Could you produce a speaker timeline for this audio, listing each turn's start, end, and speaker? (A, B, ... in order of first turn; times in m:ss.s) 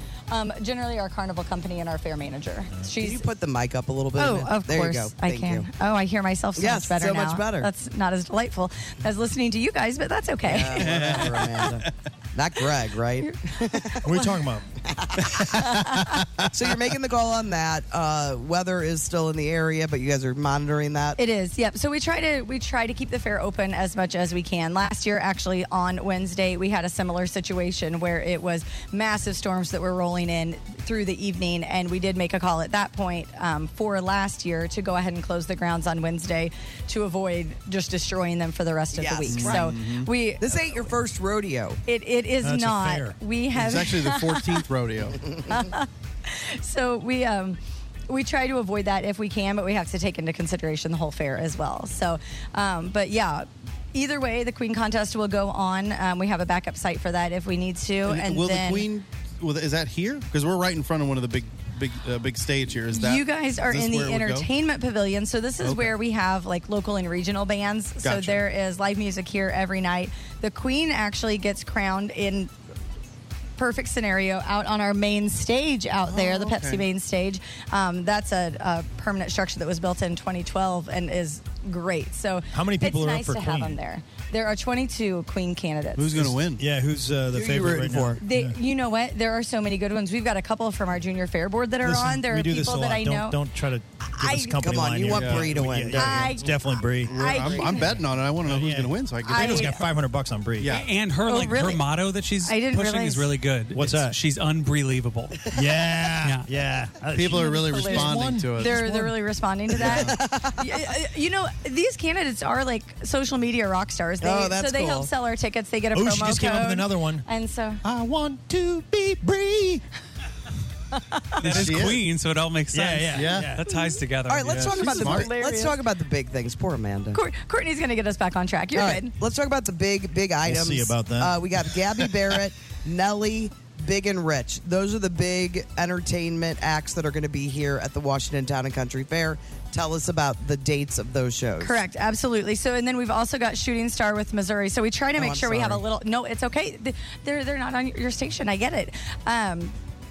0:00.3-0:03.3 A
0:03.0-0:05.7 B
0:04.2-0:11.0 A
0:06.6-0:07.7 B
0:10.4-0:14.0 B
0:10.8-0:11.8 C
0:13.9-0:14.3 A
0:14.0-0:14.8 D
0:14.9-0:15.6 B
0:15.5-0:16.2 A
0:16.5-0:21.2 B
0:21.2-0:40.5 A
0:38.9-0:39.7 B
0:39.3-0:40.1 C
0:40.4-0:41.8 B
0:41.9-0:44.6 A
0:42.4-0:43.2 D
0:43.5-0:45.2 C
0:45.5-0:47.6 A
0:48.1-0:58.9 A
0:58.1-1:04.5 C
1:02.9-1:12.5 A
1:05.6-1:06.0 C
1:08.0-1:08.4 C
1:13.6-1:26.1 A
1:16.1-1:16.8 C
1:22.5-1:23.8 D
1:26.0-1:26.6 C
1:26.2-1:28.6 D
1:27.3-1:28.2 B
1:28.2-1:33.4 A
1:31.8-1:40.8 D
1:34.1-1:34.7 A
1:34.6-1:36.3 B
1:35.1-1:35.6 C
1:35.9-1:38.0 A
1:36.9-1:39.8 C
1:39.2-1:39.8 A
1:40.6-1:40.9 C
1:40.7-1:45.4 E
1:41.2-1:41.8 A
1:42.4-1:43.3 A
1:43.7-1:44.2 D
1:45.5-1:49.2 D
1:46.2-1:46.5 E
1:47.1-1:48.8 C
1:47.4-1:57.8 A
1:49.8-1:50.8 B
1:49.8-1:50.1 D
1:54.2-1:55.1 B
1:55.9-1:57.2 D
1:57.8-1:59.8 D
2:01.4-2:05.1 E
2:01.4-2:02.0 C
2:02.7-2:03.6 D
2:03.2-2:03.5 C
2:04.3-2:07.2 B
2:04.5-2:05.4 C
2:05.1-2:05.7 A
2:07.1-2:09.1 A
2:08.7-2:21.8 B
2:10.4-2:12.1 D
2:21.6-2:29.8 A
2:25.2-2:25.8 B